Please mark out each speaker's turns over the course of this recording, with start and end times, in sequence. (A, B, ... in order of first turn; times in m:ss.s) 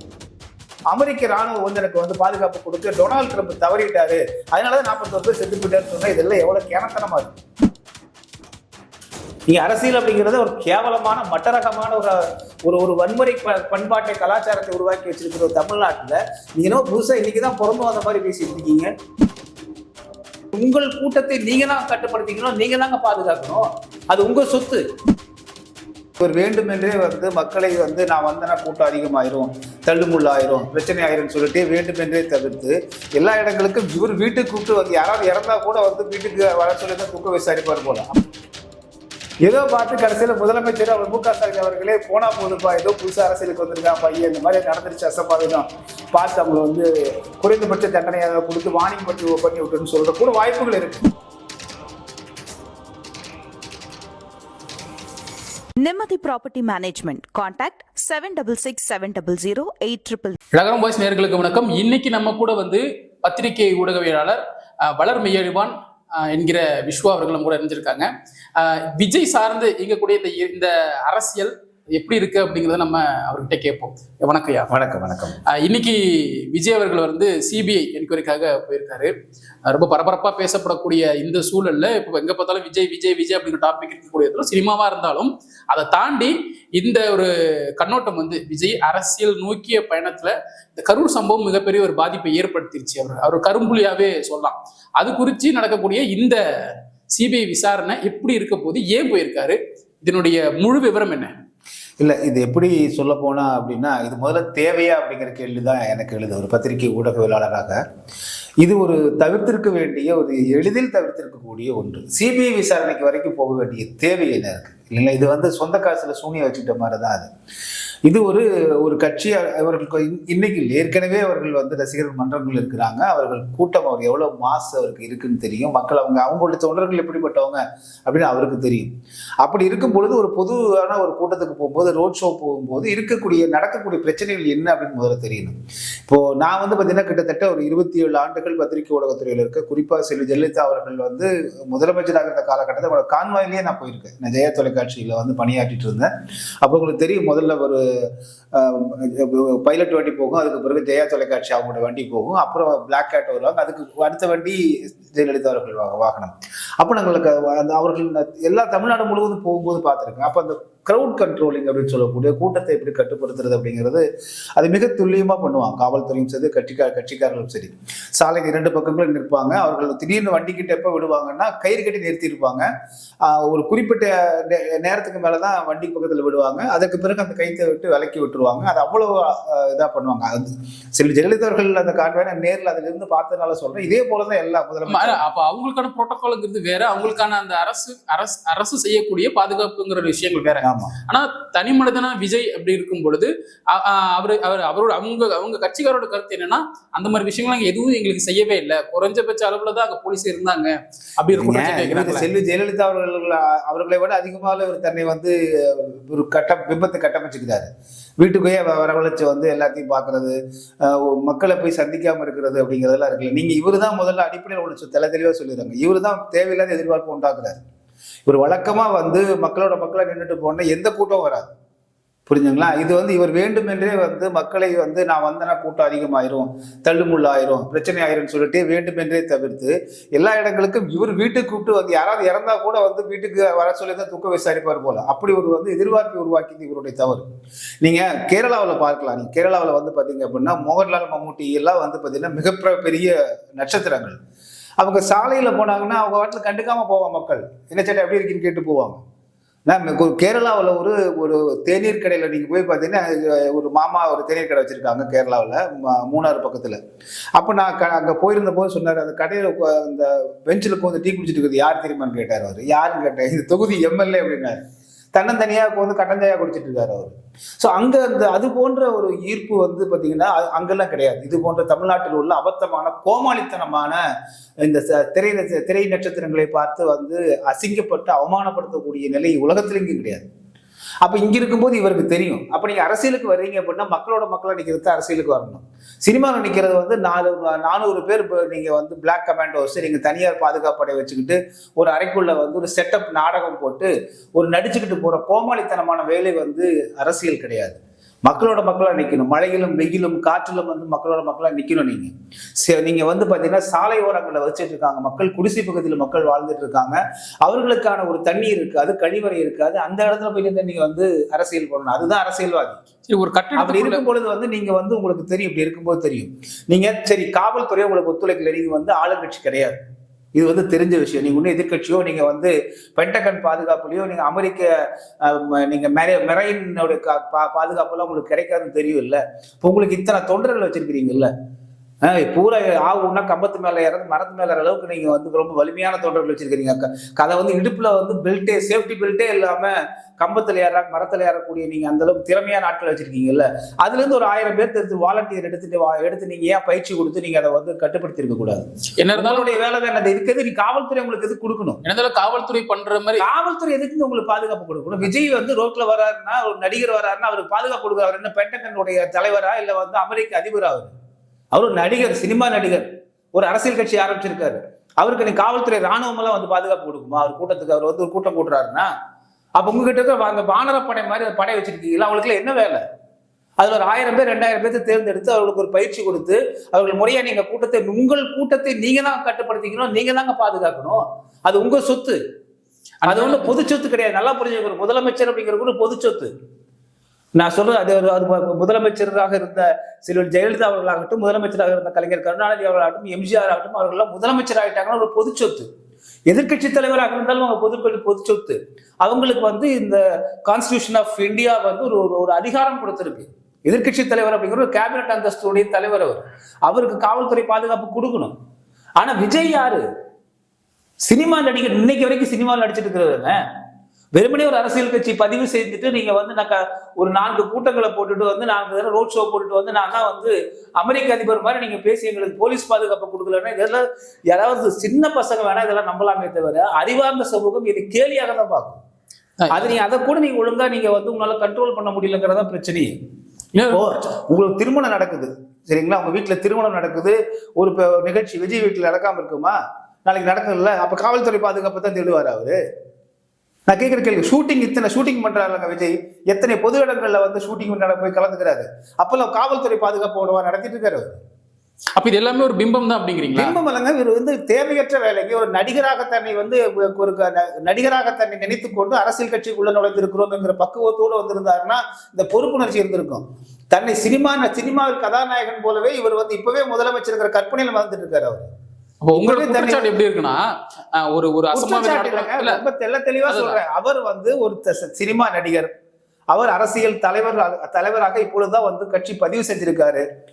0:00.9-0:07.3 A
0:09.5-0:18.9 A
0:20.5-0:24.8 A
0:26.2-0:38.2 A
0:39.4-0:46.9 A
0:47.4-0:51.1 A
0:55.8-1:00.4 B
1:00.5-1:14.7 C
1:14.7-1:15.4 A
1:15.5-1:16.0 C
1:16.5-1:19.1 C
1:19.6-1:36.4 C
1:37.1-1:41.3 C
1:42.0-1:47.8 A
1:48.6-1:57.3 A
1:58.0-2:08.9 A
2:09.4-2:15.6 A
2:16.1-2:26.1 A
2:26.6-2:27.8 A
2:28.5-2:44.0 A
2:44.6-2:52.7 A
2:53.2-3:05.2 A
3:04.8-3:22.3 C
3:10.6-3:11.0 A
3:21.3-3:37.6 A
3:38.3-3:41.5 A
3:42.3-3:57.2 A
3:57.8-4:04.2 A
4:04.8-4:09.0 A
4:09.7-4:16.8 A
4:17.4-4:24.6 A
4:25.1-4:34.0 A
4:34.6-4:40.2 A
4:41.0-5:12.8 A
5:13.1-5:14.0 C
5:13.6-5:19.8 A
5:20.3-5:24.7 A
5:25.2-5:31.3 A
5:32.0-5:51.8 A
5:49.0-5:49.6 C
5:51.8-5:53.2 C
5:53.2-6:00.9 A
6:01.5-6:08.9 A
6:09.6-6:12.8 A
6:13.6-6:22.2 A
6:23.0-6:23.5 C
6:23.0-6:26.3 A
6:27.4-6:35.7 A
6:36.3-6:48.3 A
6:49.0-6:49.8 A
6:51.0-6:53.4 A
6:54.1-7:08.8 A
7:09.4-7:09.7 C
7:09.5-7:12.9 A
7:13.5-7:13.9 C
7:13.7-7:22.6 A
7:23.7-7:31.2 A
7:32.0-7:33.6 C
7:33.3-7:48.5 A
7:49.0-7:52.6 C
7:49.1-7:49.8 A
7:51.5-7:55.7 A
7:53.2-7:53.6 C
7:56.3-8:00.0 A